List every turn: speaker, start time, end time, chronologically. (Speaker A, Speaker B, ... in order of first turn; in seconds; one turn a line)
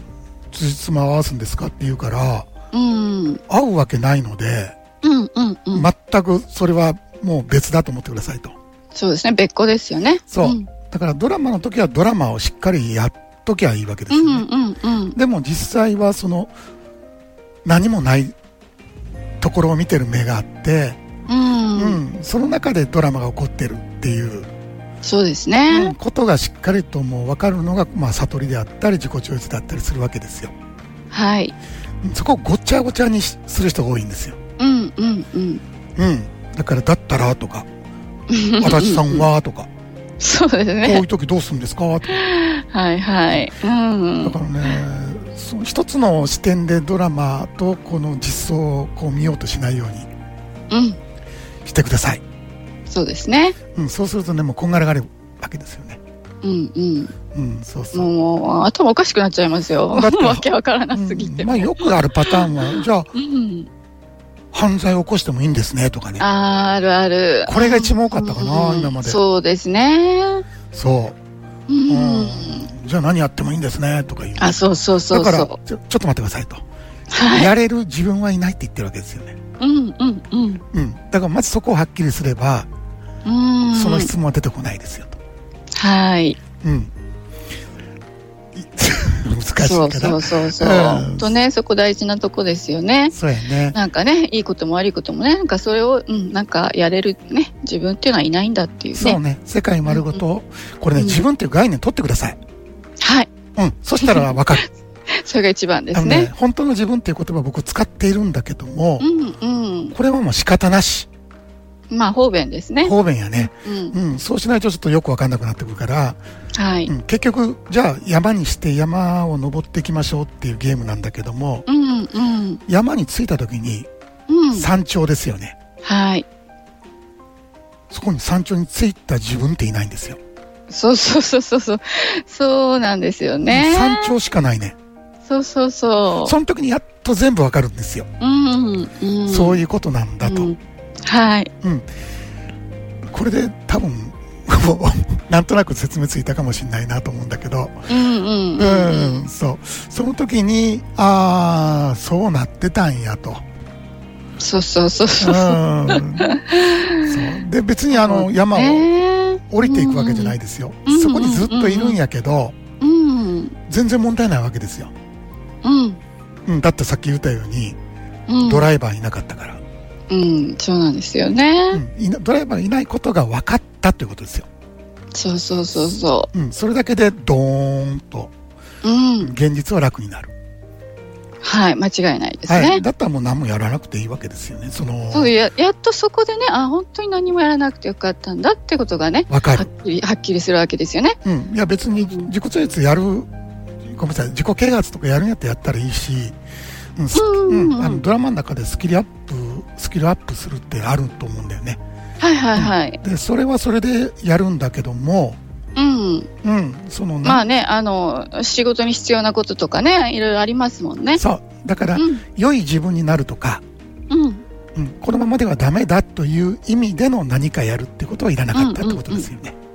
Speaker A: 0.5-2.5
Speaker B: 2.7-3.4
Speaker A: 3.5-4.8
Speaker B: 5.0-5.9
Speaker A: 5.7-8.5
Speaker B: 8.9-10.7
Speaker A: 10.3-14.4
Speaker B: 14.1-15.2
Speaker A: 15.1-16.5
Speaker A: 17.6-18.3
Speaker A: 19.4-21.0
Speaker B: 21.3-22.0
Speaker A: 21.7-24.5
Speaker B: 25.0-25.9
Speaker A: 25.7-30.5
Speaker B: 31.1-31.6
Speaker A: 32.0-34.4
Speaker B: 34.6-35.6
Speaker A: 36.0-37.7
Speaker B: 38.3-39.3
Speaker A: 38.6-39.7
Speaker B: 40.2-41.0
Speaker A: 40.8-42.2
Speaker B: 42.1-44.4
Speaker A: 44.2-50.1
Speaker B: 50.7-51.0
Speaker A: 51.6-52.2
Speaker B: 52.9-53.6
Speaker A: 53.7-56.0
Speaker B: 56.4-57.1
Speaker A: 57.3-58.1
Speaker B: 57.9-63.7
Speaker A: 59.9-63.1
Speaker A: 64.5-66.2
Speaker B: 66.2-70.5
Speaker A: 67.5-69.2
Speaker A: 70.7-71.2
Speaker B: 71.7-72.7
Speaker A: 71.9-76.6
Speaker B: 74.4-75.6
Speaker B: 77.1-77.5
Speaker A: 77.3-79.3
Speaker B: 79.6-80.6
Speaker A: 80.7-82.7
Speaker B: 83.2-84.1
Speaker A: 83.7-85.2
Speaker B: 85.7-86.4
Speaker A: 86.6-86.9
Speaker A: 88.5-91.3
Speaker B: 89.6-93.1
Speaker A: 93.1-93.8
Speaker B: 93.7-99.2
Speaker A: 99.0-102.4
Speaker B: 99.9-100.2
Speaker B: 101.0-101.2
Speaker B: 103.0-103.3
Speaker A: 103.5-104.7
Speaker B: 104.0-106.3
Speaker A: 105.9-109.1
Speaker B: 109.0-109.9
Speaker A: 109.9-111.1
Speaker B: 111.9-114.0
Speaker A: 112.8-116.2
Speaker B: 116.5-116.9
Speaker A: 116.9-121.7
Speaker B: 121.7-122.6
Speaker A: 122.7-123.9
Speaker B: 124.3-124.7
Speaker A: 124.5-125.5
Speaker B: 125.8-126.2
Speaker A: 127.9-130.2
Speaker B: 130.7-134.1
Speaker A: 133.5-134.8
Speaker B: 135.2-136.4
Speaker A: 136.2-138.1
Speaker B: 138.2-139.6
Speaker A: 139.3-140.5
Speaker B: 140.2-141.5
Speaker A: 141.6-141.9
Speaker A: 143.1-147.9
Speaker B: 147.9-149.3
Speaker A: 148.6-153.4
Speaker B: 154.4-157.4
Speaker A: 155.2-156.4
Speaker A: 157.0-158.9
Speaker B: 157.9-162.0
Speaker A: 159.5-162.6
Speaker B: 162.8-163.5
Speaker A: 163.7-164.9
Speaker B: 165.6-166.0
Speaker A: 166.4-167.8
Speaker B: 168.3-168.7
Speaker A: 168.4-169.6
Speaker B: 170.1-171.8
Speaker A: 171.7-174.5
Speaker B: 175.1-176.3
Speaker A: 176.3-178.3
Speaker B: 178.8-179.3
Speaker A: 179.2-180.3
Speaker B: 181.4-182.8
Speaker A: 182.5-185.3
Speaker B: 185.1-191.2
Speaker A: 189.3-189.7
Speaker A: 191.2-193.3
Speaker A: 193.8-196.4
Speaker A: 196.9-201.8
Speaker B: 197.1-198.0
Speaker B: 202.2-203.0
Speaker A: 202.5-205.4
Speaker B: 205.8-206.3
Speaker A: 206.4-207.4
Speaker B: 207.2-211.2
Speaker A: 211.2-213.6
Speaker B: 211.9-212.2
Speaker B: 214.1-214.4
Speaker A: 214.7-219.5
Speaker B: 218.5-219.3